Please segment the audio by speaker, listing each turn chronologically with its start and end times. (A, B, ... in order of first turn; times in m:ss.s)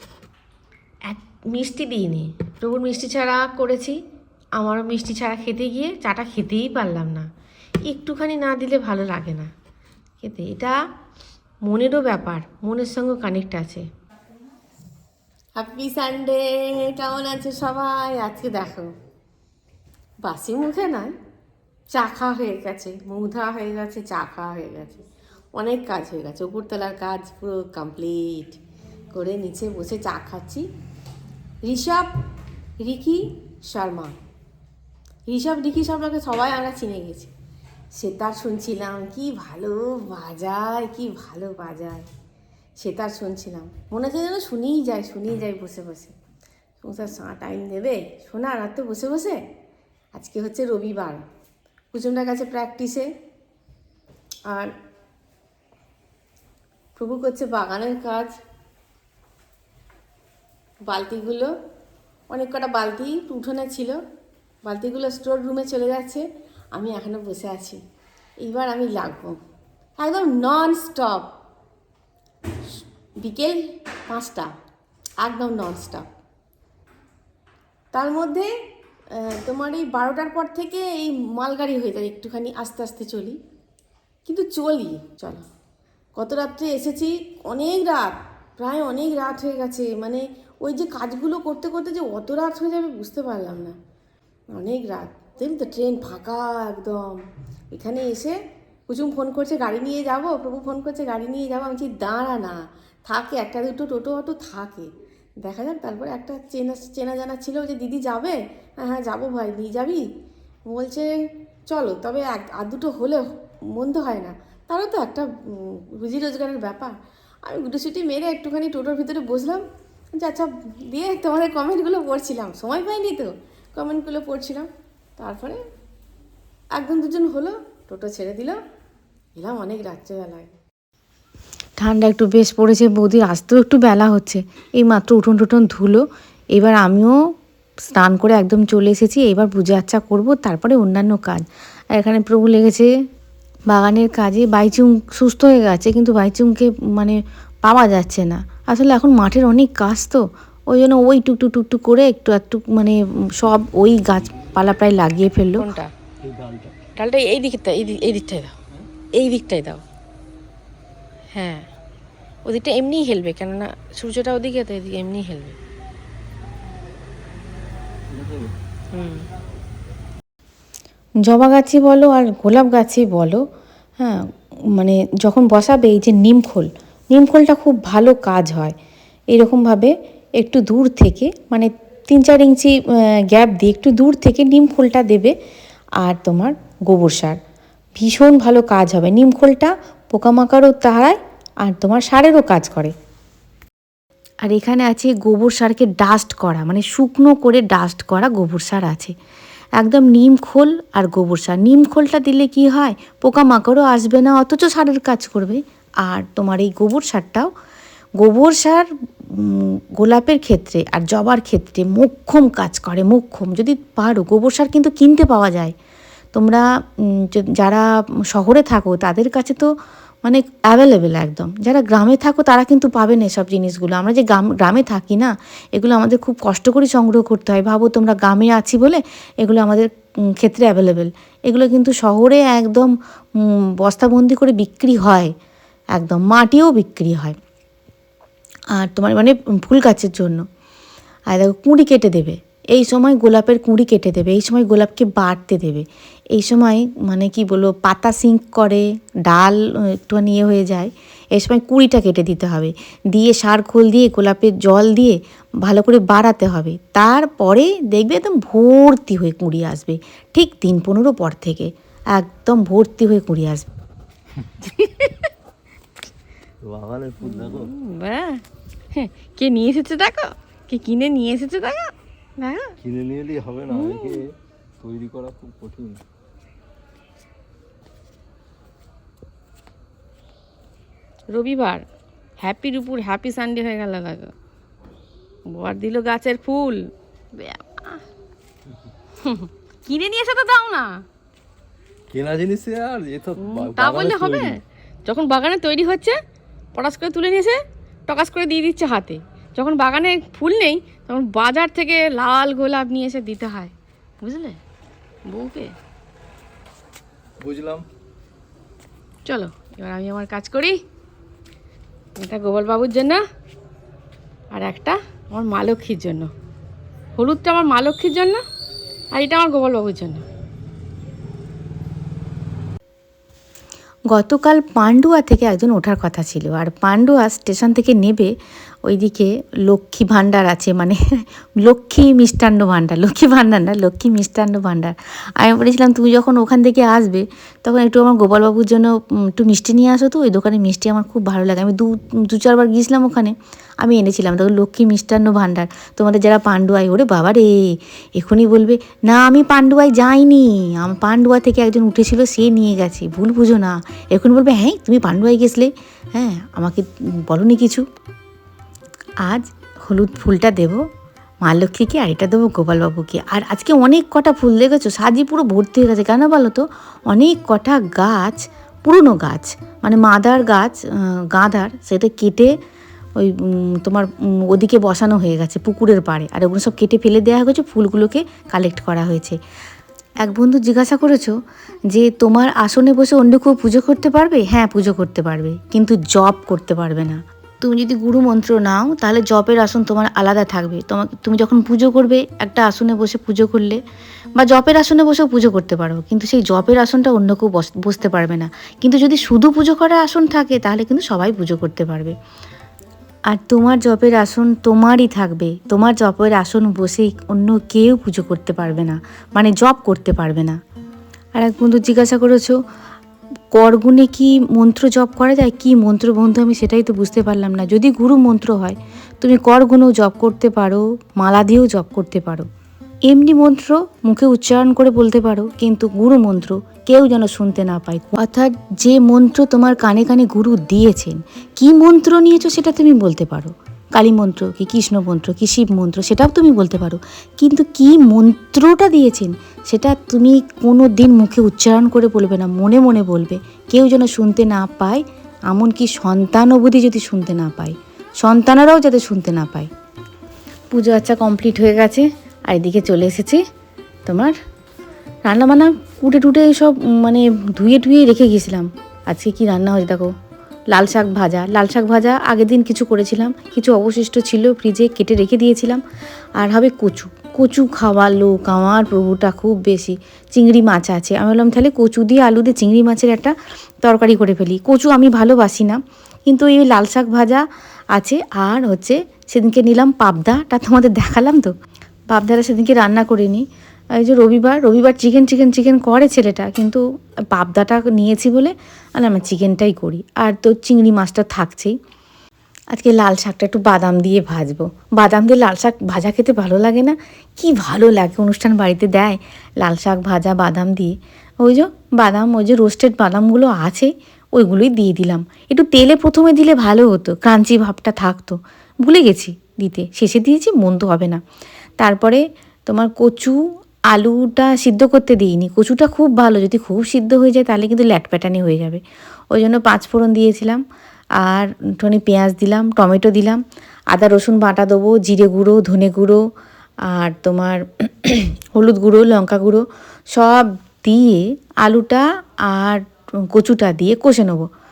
0:01.2-0:03.9 A
0:04.6-0:07.2 A
0:08.0-0:09.4 A
0:11.8-0:12.3 A
0:15.6-0:18.9 A
0:20.2-0:21.1 A
0:21.9-0:28.6 A
0:29.1-0:30.7 A
0:31.6-0:32.1 A
0:32.8-0:34.2 A
0:35.3-0:37.3 A
0:37.9-0:42.1 A
0:42.8-0:46.1 A
0:46.8-0:49.4 A
0:50.1-0:51.2 A
0:51.9-0:53.1 A
0:54.5-0:54.7 A
0:57.0-0:58.4 A
1:00.8-1:01.5 A
1:02.3-1:04.0 A
1:04.6-1:07.8 A
1:08.4-1:09.4 A
1:10.0-1:11.3 A
1:13.2-1:14.5 A
1:15.2-1:16.0 A
1:17.9-1:18.5 A
1:19.1-1:23.4 A
1:24.2-1:25.4 A
1:26.2-1:33.8 A
1:34.5-1:38.4 A
1:38.9-1:50.0 A
1:50.7-1:51.1 A
1:51.7-2:05.6 A
2:06.7-2:08.6 A
2:09.4-2:10.6 A
2:11.8-2:17.2 B
2:17.8-2:22.9 B
2:23.7-2:35.7 B
2:35.6-2:35.9 A
2:36.2-2:36.8 C
2:37.0-2:38.5 A
2:39.1-2:39.8 A
2:41.3-2:41.6 A
2:42.4-2:45.6 A
2:48.1-2:48.5 C
2:48.9-2:49.2 A
2:51.2-2:53.4 B
2:54.0-2:58.8 B
2:59.3-3:05.3 B
3:06.0-3:07.4 B
3:07.9-3:12.9 B
3:14.4-3:19.1 B
3:19.8-3:27.5 B
3:28.2-3:35.8 B
3:36.3-3:39.7 B
3:40.2-3:55.3 B
3:55.9-3:57.4 B
3:58.8-4:00.4 B
4:01.3-4:23.7 B
4:24.6-4:25.3 A
4:26.6-4:27.7 C
4:27.2-4:28.4 A
4:28.9-4:32.7 A
4:32.8-4:34.2 C
4:33.7-4:34.2 A
4:34.8-4:36.0 C
4:41.3-4:41.8 A
4:42.4-4:44.3 A
4:45.5-4:46.8 A
4:47.3-4:48.0 A
4:49.2-4:51.0 A
4:52.1-4:54.5 C
4:53.4-4:56.2 A
4:56.7-5:04.6 A
5:05.3-5:05.7 A
5:07.4-5:07.8 C
5:09.2-5:10.8 A
5:12.2-5:13.2 A
5:14.5-5:16.3 A
5:17.2-5:18.4 A
5:19.1-5:20.2 A
5:24.1-5:57.8 B
5:59.2-6:00.8 B
6:01.4-6:12.6 B
6:13.2-6:19.4 B
6:20.2-6:21.4 B
6:21.9-6:33.8 B
6:34.3-6:42.2 B
6:43.3-6:50.6 B
6:51.4-6:52.6 B
6:53.5-7:02.5 B
7:03.0-7:29.7 B
7:30.7-7:33.4 B
7:34.0-7:34.4 B
7:35.2-7:40.1 B
7:40.7-7:45.8 B
7:46.4-8:01.5 B
8:02.1-8:11.7 B
8:12.7-8:31.2 B
8:31.8-8:40.6 B
8:41.2-8:46.2 B
8:46.8-8:54.5 B